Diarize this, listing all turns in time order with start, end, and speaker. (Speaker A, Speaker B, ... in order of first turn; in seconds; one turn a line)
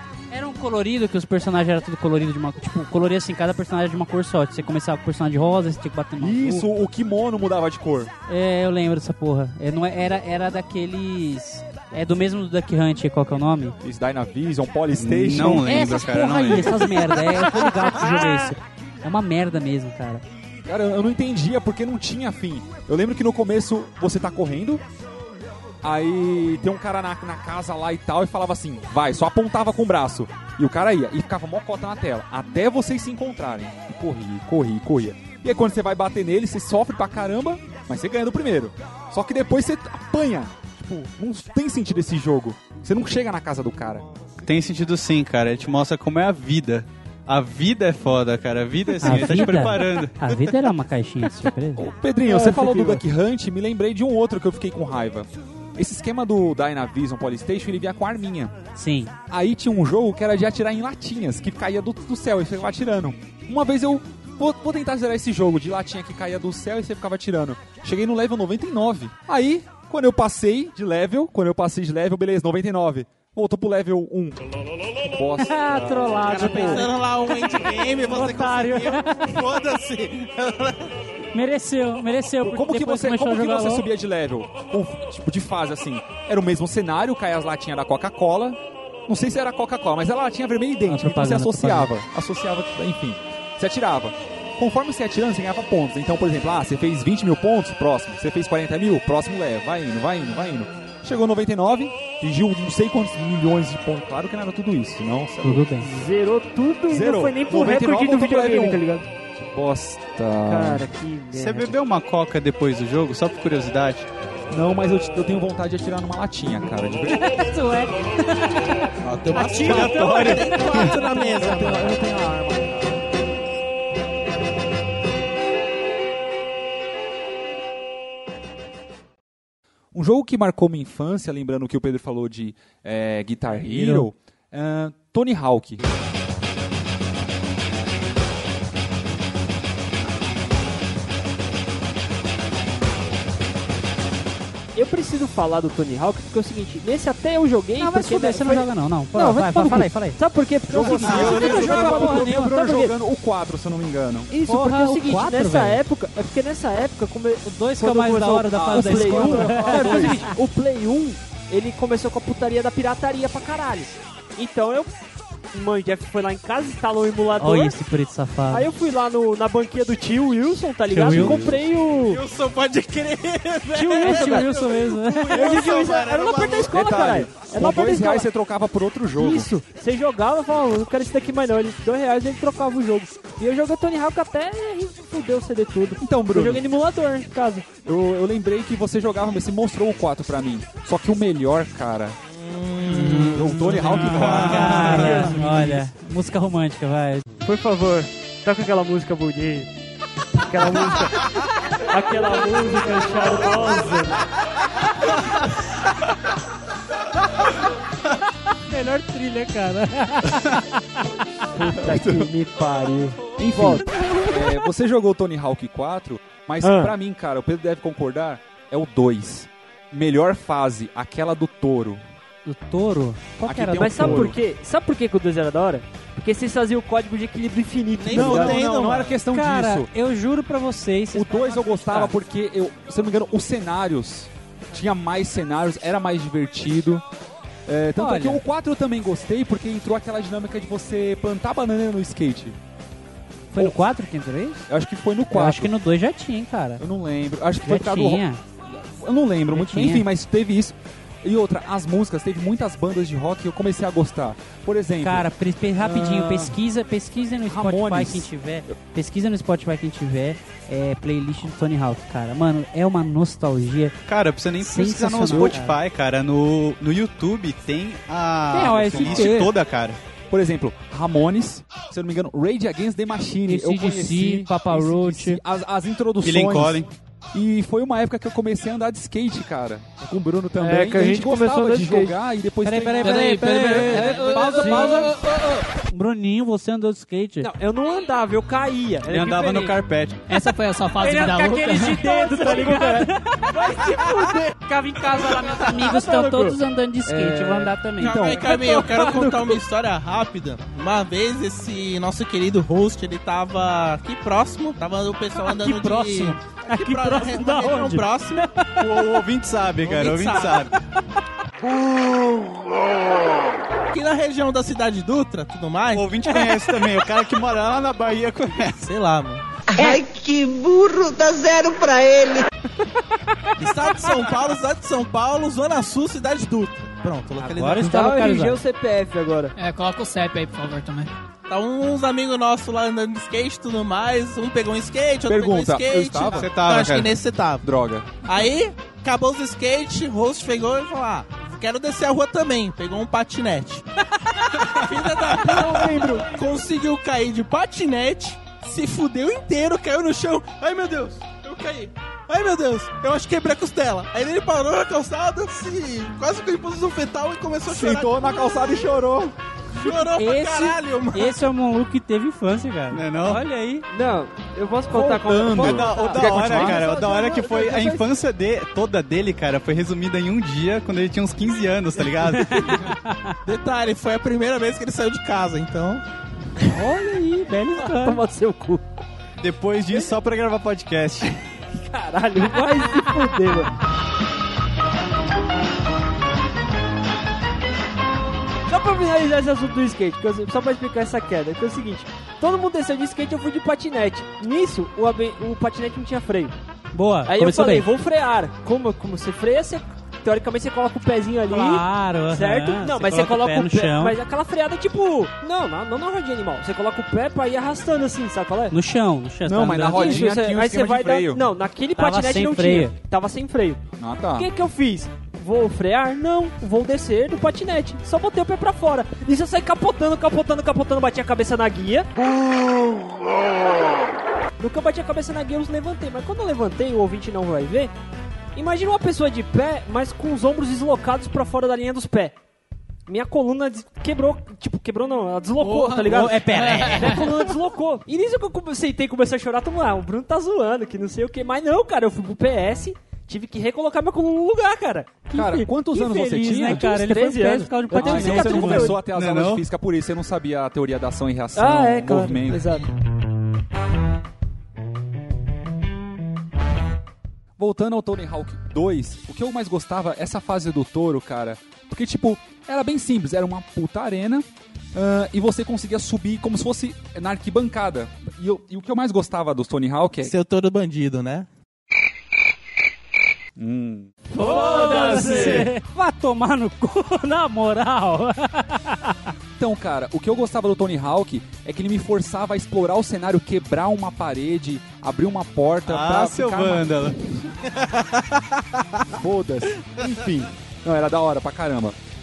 Speaker A: 0.3-6.7
Speaker B: 6.2-8.1
Speaker A: 8.3-13.8
Speaker B: 13.8-15.8
Speaker C: 15.0-17.1
Speaker A: 15.6-20.2
Speaker B: 20.6-24.8
Speaker B: 25.8-44.0
Speaker C: 44.4-50.3
Speaker A: 49.0-51.9
Speaker B: 51.8-58.5
Speaker D: 52.2-53.0
Speaker A: 58.7-59.1
Speaker B: 59.3-74.4
Speaker B: 74.9-76.8
Speaker A: 75.4-76.9
Speaker E: 76.2-80.8
Speaker A: 78.0-79.4
Speaker A: 81.3-83.9
Speaker B: 82.4-105.7
Speaker A: 90.8-91.9
Speaker A: 105.4-105.9
Speaker D: 105.8-109.1
Speaker B: 106.9-108.8
Speaker B: 109.4-110.9
Speaker D: 110.4-111.7
Speaker C: 111.3-114.1
Speaker B: 114.5-117.2
Speaker A: 117.1-122.7
Speaker E: 119.0-122.0
Speaker C: 119.6-120.9
Speaker B: 121.4-122.5
Speaker B: 129.9-135.8
Speaker D: 144.7-152.9
Speaker A: 147.8-150.2
Speaker B: 150.7-154.3
Speaker A: 151.0-152.6
Speaker D: 154.3-167.7
Speaker A: 154.4-155.8
Speaker A: 157.4-160.3
Speaker B: 158.5-160.3
Speaker A: 167.4-168.7
Speaker D: 168.5-172.2
Speaker A: 170.9-171.5
Speaker B: 171.1-171.6
Speaker E: 172.0-176.8
Speaker A: 173.8-175.5
Speaker D: 173.8-174.5
Speaker D: 175.3-178.3
Speaker B: 176.7-179.5
Speaker D: 179.2-187.7
Speaker B: 186.0-186.6
Speaker B: 187.8-192.2
Speaker E: 192.3-195.3
Speaker B: 193.2-195.8
Speaker A: 194.1-197.2
Speaker D: 194.1-195.8
Speaker D: 197.4-199.7
Speaker D: 200.4-204.2
Speaker A: 208.5-210.8
Speaker D: 211.5-213.9
Speaker B: 211.8-212.3
Speaker B: 213.6-222.0
Speaker A: 214.3-214.6
Speaker D: 216.6-216.9
Speaker A: 222.4-224.3
Speaker B: 223.4-224.4
Speaker D: 223.5-229.1
Speaker E: 228.0-229.1
Speaker B: 228.1-229.9
Speaker A: 229.3-232.1
Speaker B: 231.1-237.0
Speaker B: 237.7-242.6
Speaker A: 238.0-238.4
Speaker A: 243.5-244.6
Speaker B: 243.6-243.8
Speaker B: 244.7-245.7
Speaker A: 245.3-246.8
Speaker B: 246.8-255.2
Speaker A: 247.6-248.4
Speaker A: 249.5-250.1
Speaker A: 255.0-263.9
Speaker B: 255.8-256.6
Speaker B: 257.5-258.7
Speaker C: 264.1-270.0
Speaker A: 264.6-265.7
Speaker A: 268.5-269.5
Speaker B: 268.6-269.5
Speaker B: 270.3-284.6
Speaker A: 273.4-275.4
Speaker C: 276.2-276.9
Speaker D: 280.6-282.2
Speaker A: 282.6-285.2
Speaker F: 283.0-285.6
Speaker D: 283.9-285.1
Speaker A: 285.8-287.5
Speaker D: 287.4-289.8
Speaker C: 289.1-290.2
Speaker F: 290.3-292.5
Speaker D: 291.0-296.6
Speaker A: 291.0-293.5
Speaker A: 294.7-298.2
Speaker B: 297.1-299.6
Speaker E: 298.0-308.4
Speaker A: 305.4-309.2
Speaker C: 308.8-310.7
Speaker A: 310.0-310.7
Speaker C: 311.6-313.2
Speaker E: 313.9-316.2
Speaker C: 315.9-318.8
Speaker E: 318.8-319.4
Speaker G: 319.7-322.4
Speaker E: 323.6-327.9
Speaker A: 327.4-328.6
Speaker D: 327.8-329.5
Speaker F: 329.6-331.1
Speaker E: 331.5-337.6
Speaker B: 335.3-336.5
Speaker C: 336.3-337.1
Speaker B: 337.6-338.2
Speaker E: 338.2-343.8
Speaker E: 344.4-358.7
Speaker B: 345.2-346.3
Speaker B: 357.7-359.3
Speaker E: 359.7-361.4
Speaker A: 360.0-363.9
Speaker C: 362.9-363.4
Speaker D: 363.9-368.1
Speaker B: 364.9-366.8
Speaker C: 365.5-372.8
Speaker A: 372.4-373.3
Speaker E: 373.4-376.0
Speaker A: 376.7-378.2
Speaker D: 377.8-378.8
Speaker C: 379.4-381.3
Speaker D: 381.8-383.7
Speaker D: 388.7-396.6
Speaker A: 396.9-397.9
Speaker D: 397.3-408.7
Speaker A: 401.5-404.1
Speaker A: 408.7-410.3
Speaker B: 409.4-411.4
Speaker D: 409.9-413.8
Speaker A: 411.9-412.9
Speaker B: 414.0-414.5
Speaker D: 414.4-422.1
Speaker D: 424.6-427.9
Speaker D: 428.5-432.4
Speaker D: 433.1-449.0
Speaker F: 435.6-437.4
Speaker B: 445.3-446.9
Speaker A: 445.3-445.6
Speaker A: 446.5-448.9
Speaker B: 447.9-452.7
Speaker C: 449.1-449.6
Speaker D: 451.5-452.9
Speaker B: 457.6-470.3
Speaker E: 470.2-471.5
Speaker B: 473.6-475.7
Speaker A: 474.4-479.1
Speaker B: 479.6-486.9
Speaker C: 485.9-487.3
Speaker E: 487.7-488.8
Speaker B: 489.1-491.9